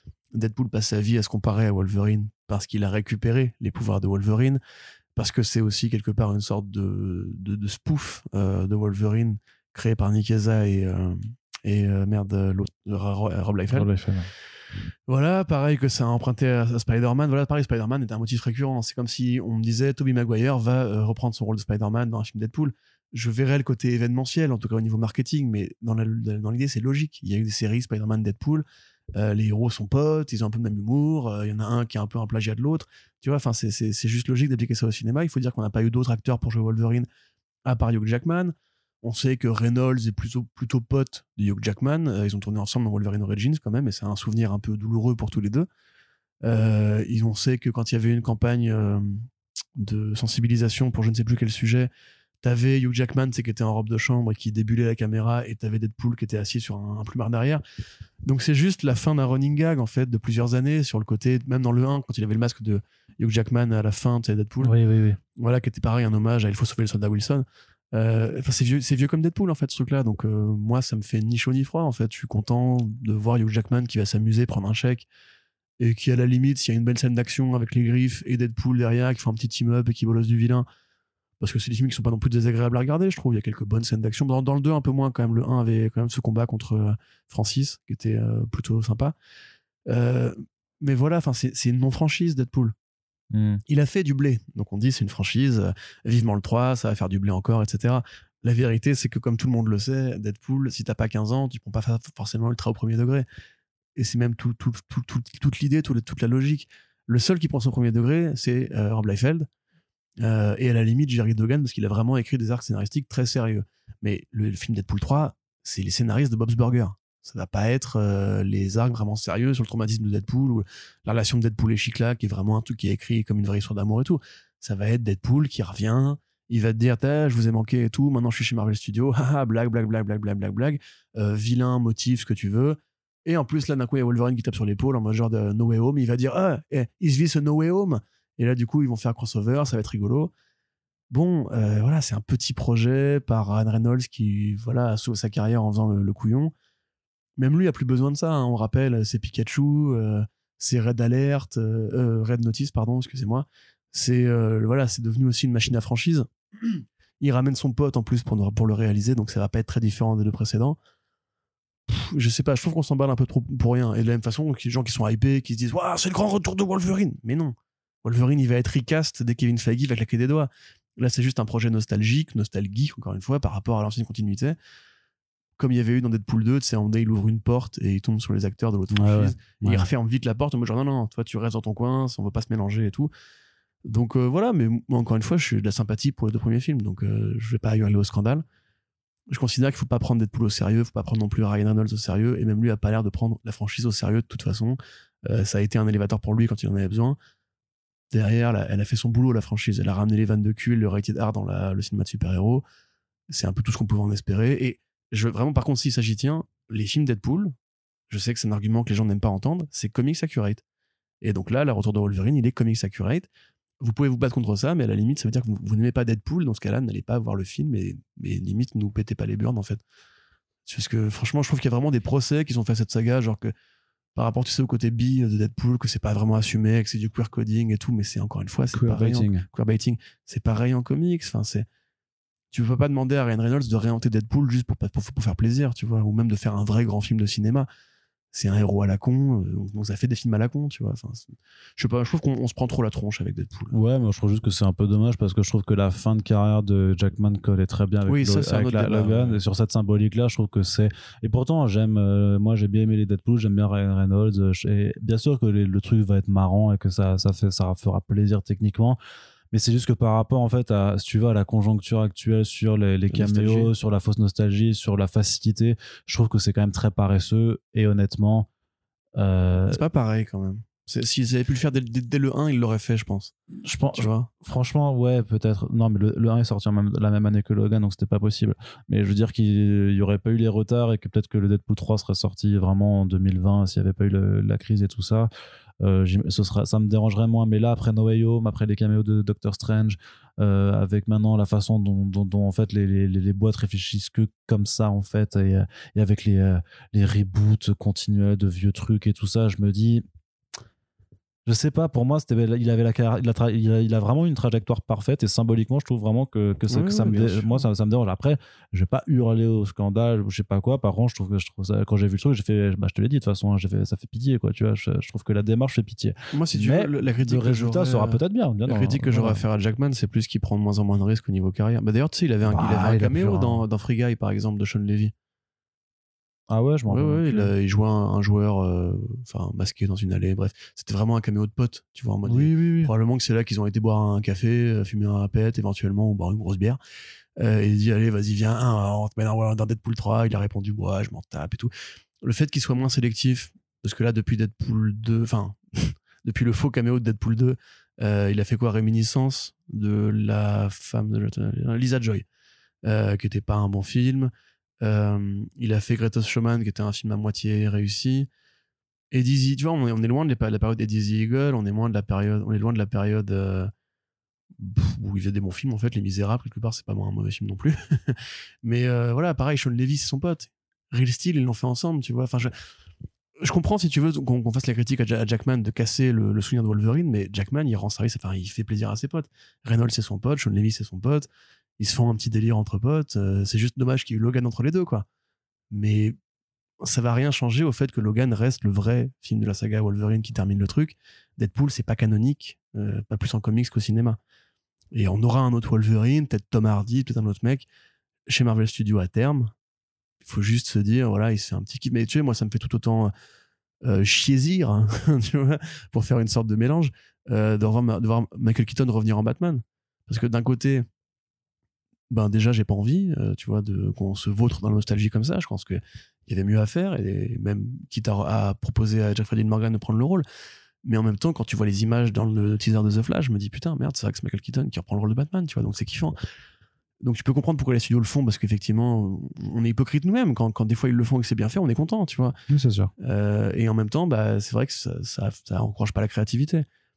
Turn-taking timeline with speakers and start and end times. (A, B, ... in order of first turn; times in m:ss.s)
0:00.3-0:04.6 A
0:05.2-0:13.9 A
0:13.7-0:14.3 B
0:15.1-0:37.0 A
0:37.6-0:45.7 A
0:46.4-0:49.3 A
0:49.8-0:51.9 A
0:52.4-0:57.6 A
0:58.2-1:04.8 A
1:04.6-1:05.2 B
1:05.4-1:15.1 A
1:15.8-1:20.6 A
1:21.4-1:29.1 A
1:29.9-1:32.7 A
1:33.3-1:33.6 B
1:33.7-1:43.3 A
1:43.9-1:49.5 A
1:50.2-2:20.3 A
2:21.1-2:26.5 A
2:27.4-2:40.8 A
2:41.9-2:54.6 A
2:55.6-3:03.1 A
2:58.9-2:59.9 B
3:03.8-3:08.4 A
3:09.3-3:17.2 A
3:18.1-3:22.6 A
3:23.3-3:27.5 A
3:28.1-3:30.6 A
3:31.2-3:33.3 A
3:33.8-3:39.8 A
3:40.6-3:43.5 A
3:44.1-3:51.6 A
3:48.7-3:49.4 B
3:52.5-3:57.7 A
3:58.3-4:03.7 A
4:03.7-4:19.0 B
4:08.0-4:09.4 A
4:19.5-4:28.5 B
4:23.1-4:23.7 A
4:29.2-4:29.8 B
4:29.7-4:33.3 A
4:33.6-4:45.3 B
4:33.9-4:34.3 A
4:45.8-5:00.0 B
5:01.4-5:19.4 B
5:06.7-5:07.6 A
5:16.3-5:25.1 A
5:22.4-5:23.6 B
5:26.5-5:27.5 B
5:26.9-5:36.8 A
5:32.3-5:32.9 B
5:37.4-5:52.2 A
5:52.8-5:58.3 A
5:59.1-6:03.7 A
6:04.6-6:12.5 A
6:13.4-6:21.3 A
6:21.8-6:25.0 A
6:25.7-6:26.1 A
6:26.8-6:34.2 A
6:34.9-6:37.7 A
6:38.3-6:39.5 A
6:40.2-6:43.1 A
6:43.8-6:50.8 A
6:52.1-7:00.2 A
7:00.8-7:06.1 A
7:07.0-7:12.3 A
7:12.5-7:12.9 B
7:13.0-7:16.6 A